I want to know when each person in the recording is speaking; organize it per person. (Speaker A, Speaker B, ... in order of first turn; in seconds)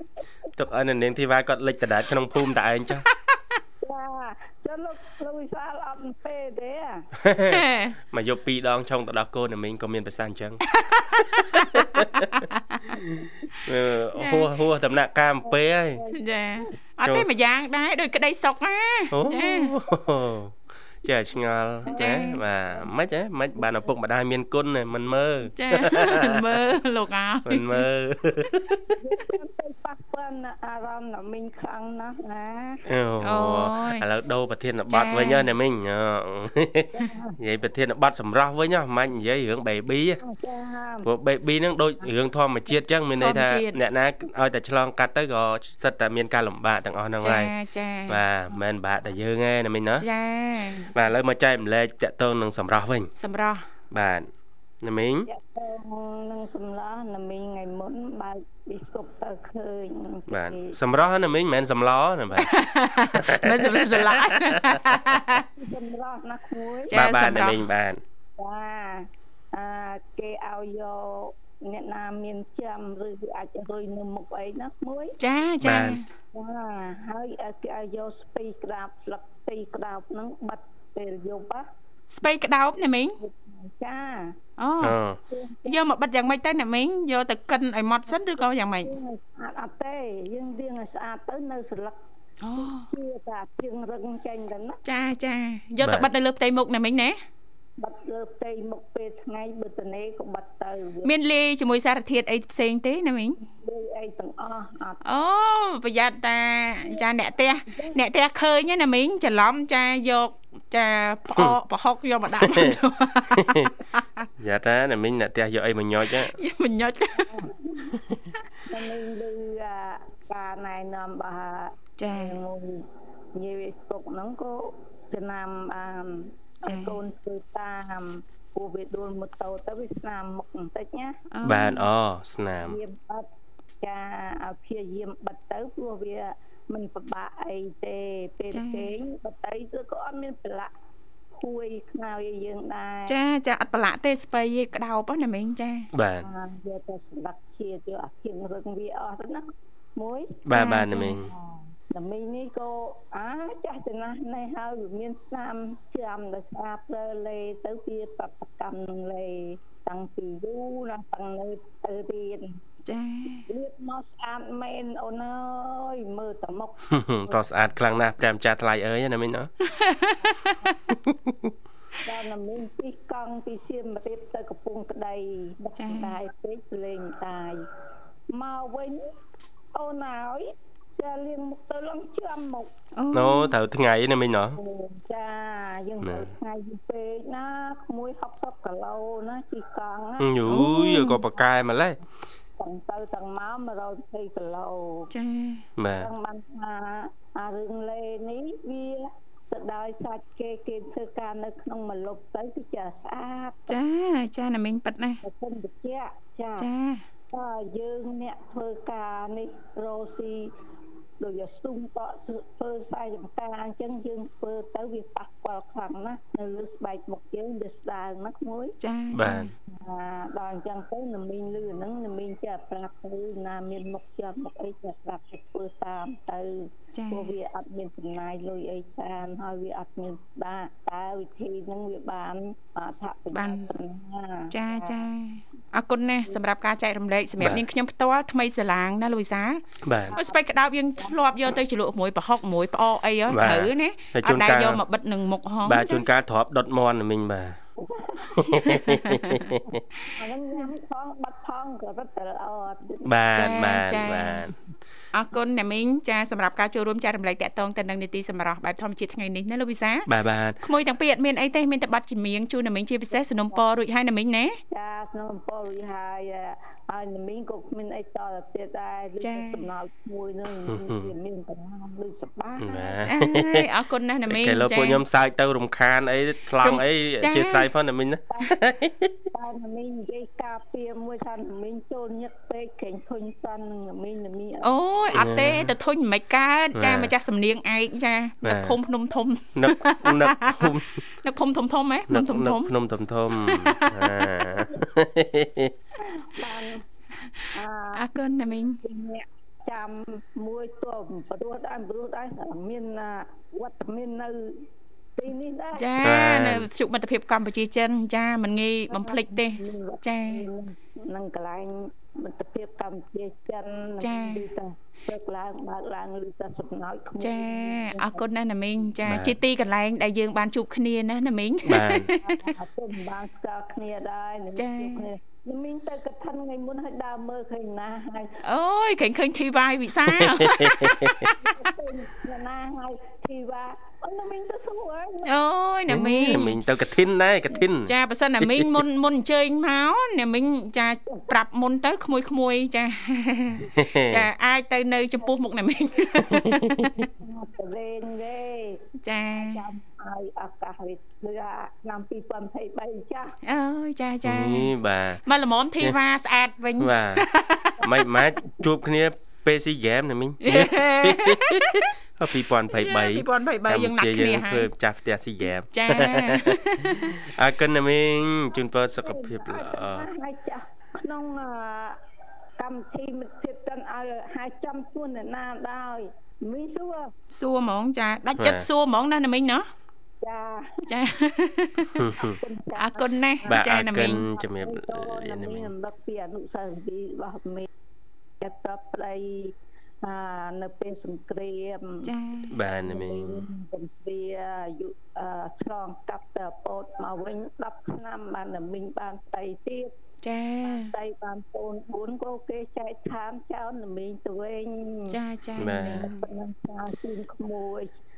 Speaker A: 0.6-3.1, 7.2-10.7, 11.2-16.0, 19.1-26.6, 27.5-29.0, 32.9-40.2, 41.0-47.5, 48.1-50.1, 50.9-53.1, 53.9-54.3, 54.8-55.3, 60.3-62.5, 63.1-65.2, 66.9-68.0, 75.6-76.0, 84.8-85.2, 95.8-96.1, 112.3-112.8, 113.3-113.7, 114.4-116.4, 131.4-132.8, 145.9-146.3, 150.5-151.3, 166.9-169.5, 171.0-171.5, 183.1-184.6, 186.0-186.3, 190.2-192.0, 195.8-196.1, 219.1-219.5, 239.8-240.2, 243.3-244.8, 245.7-247.6, 248.3-249.6, 253.1-254.6, 260.1-260.6, 270.7-271.1, 272.6-273.7, 274.3-279.2, 285.1-285.7, 286.8-287.1, 288.4-288.8, 289.6-291.0, 292.1-295.7, 306.0-306.7, 319.1-319.4, 321.6-322.1, 330.1-331.1, 335.9-338.7, 343.7-344.3, 346.3-347.1, 354.2-355.2, 356.8-357.3, 357.8-370.1, 378.4-378.7, 382.0-382.4, 383.5-385.7, 392.5-393.5, 405.6-406.1
Speaker B: 3.1-3.6, 7.5-8.0, 10.7-13.0, 14.2-14.5, 16.1-19.8, 21.9-22.4, 25.6-27.9, 33.2-34.0, 34.9-35.6, 43.2-43.8, 47.2-48.2, 50.0-50.9, 53.2-53.7, 62.4-65.4, 66.9-67.6, 75.2-76.0, 82.1-83.2, 84.6-85.0, 85.7-88.9, 92.4-92.9, 94.8-97.2, 101.0-103.4, 105.0-114.3, 116.2-117.3, 122.0-122.4, 126.7-127.0, 131.3-131.9, 138.5-138.9, 143.1-145.9, 150.5-151.2, 162.8-163.5, 169.7-170.9, 175.8-176.2, 182.9-183.6, 190.4-191.2, 195.1-195.7, 203.7-205.2, 206.6-207.1, 218.8-219.5, 226.9-227.3, 233.3-233.7, 234.5-239.6, 240.2-246.0, 248.9-249.6, 253.3-254.5, 255.1-260.1, 260.6-264.6, 269.2-269.7, 273.1-275.0, 276.6-277.7, 284.6-292.7, 293.4-294.5, 297.9-298.8, 305.7-310.5, 314.0-314.4, 317.2-322.5, 324.6-325.1, 328.4-331.4, 335.2-336.6, 337.8-347.0, 349.0-349.6, 353.4-354.7, 355.2-357.9, 360.4-361.9, 362.7-364.7, 365.7-367.2, 377.3-379.7, 380.9-382.0, 382.8-384.2, 392.1-392.6, 400.2-400.9, 405.1-406.2
Speaker C: 3.8-7.1, 15.4-16.2, 21.9-22.2, 29.0-32.8, 36.9-37.4, 40.2-41.1, 55.3-60.8, 65.4-67.0, 68.4-75.2, 76.3-81.7, 83.2-84.4, 85.3-85.8, 88.3-92.0, 92.6-94.8, 97.8-101.1, 103.4-105.0, 107.7-108.0, 117.2-118.0, 118.7-131.2, 132.6-133.3, 133.8-140.7, 141.3-143.2, 146.2-150.6, 151.9-162.6, 163.5-167.4, 172.1-177.6, 178.3-179.1, 179.7-182.8, 184.6-190.4, 192.6-195.1, 196.0-203.8, 205.2-206.7, 207.3-210.5, 211.2-218.8, 219.7-235.1, 240.1-240.4, 247.8-248.8, 249.7-253.1, 263.1-263.6, 264.7-273.1, 279.3-284.7, 296.0-296.8, 297.5-305.9, 308.9-318.2, 322.2-328.4, 331.3-335.3, 347.2-353.4, 368.9-372.0, 372.6-377.1, 380.2-380.9, 382.2-383.6, 384.3-387.7, 388.4-392.1, 392.8-399.9, 400.6-405.2, 406.0-407.9